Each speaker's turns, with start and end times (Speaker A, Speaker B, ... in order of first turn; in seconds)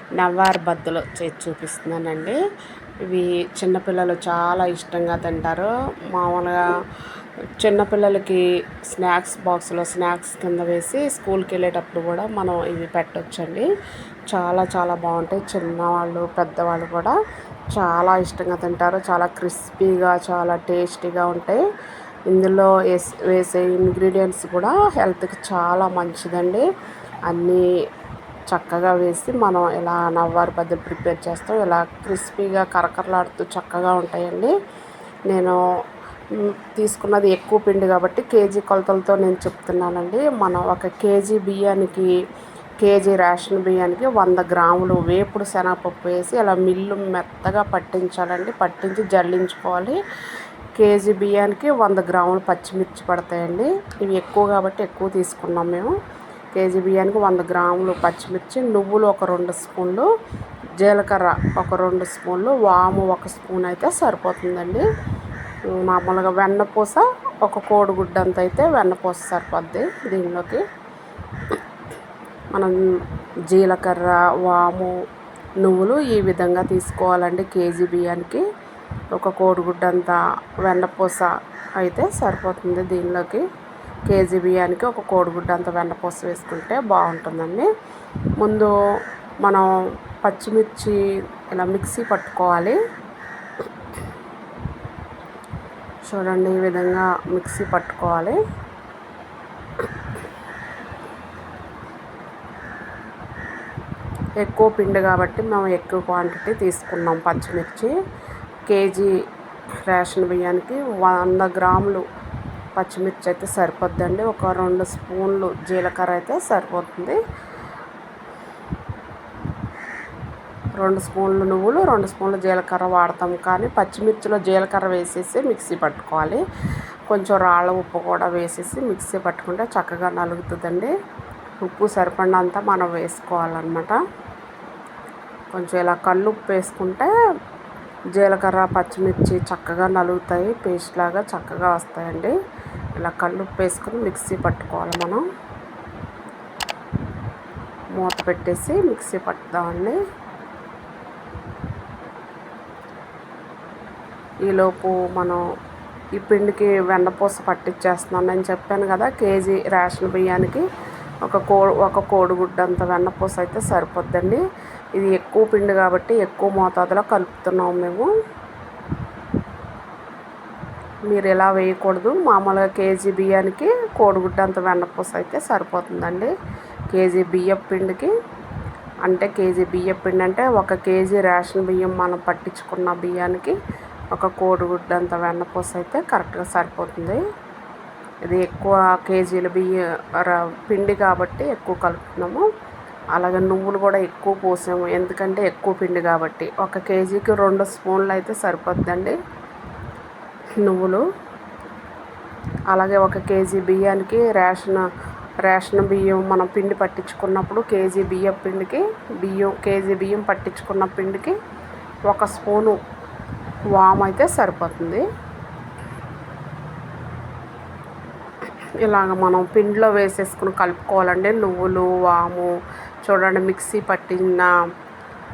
Speaker A: 0.2-2.4, 3.1-6.7, 7.6-13.7, 14.3-17.1, 17.7-21.6, 22.3-26.6, 27.3-27.6, 28.5-34.5, 35.3-35.6, 36.3-42.1, 42.8-50.0, 50.8-55.9, 56.5-60.1, 60.8-64.8, 65.7-70.6, 73.5-74.9, 75.6-78.5, 79.1-83.4, 84.1-87.7, 88.4-88.7, 89.4-89.7, 90.2-91.0, 91.5-92.8, 96.1-98.4, 104.4-107.9, 108.7-109.1, 109.9-112.0, 112.8-117.2, 120.8-126.4, 127.1-130.9, 131.6-134.0, 135.5-137.1, 138.1-142.3, 143.0-145.2, 147.9-150.0, 154.4-155.4, 156.2-160.6, 161.2-164.4, 164.9-168.1, 171.1-176.3, 176.9-178.1, 179.0-183.6, 184.1-187.2, 188.2-192.4, 193.1-199.2, 200.6-201.0, 202.7-204.8, 205.4-211.3, 212.1-212.8, 213.7-215.0, 218.8-222.5, 223.0-224.5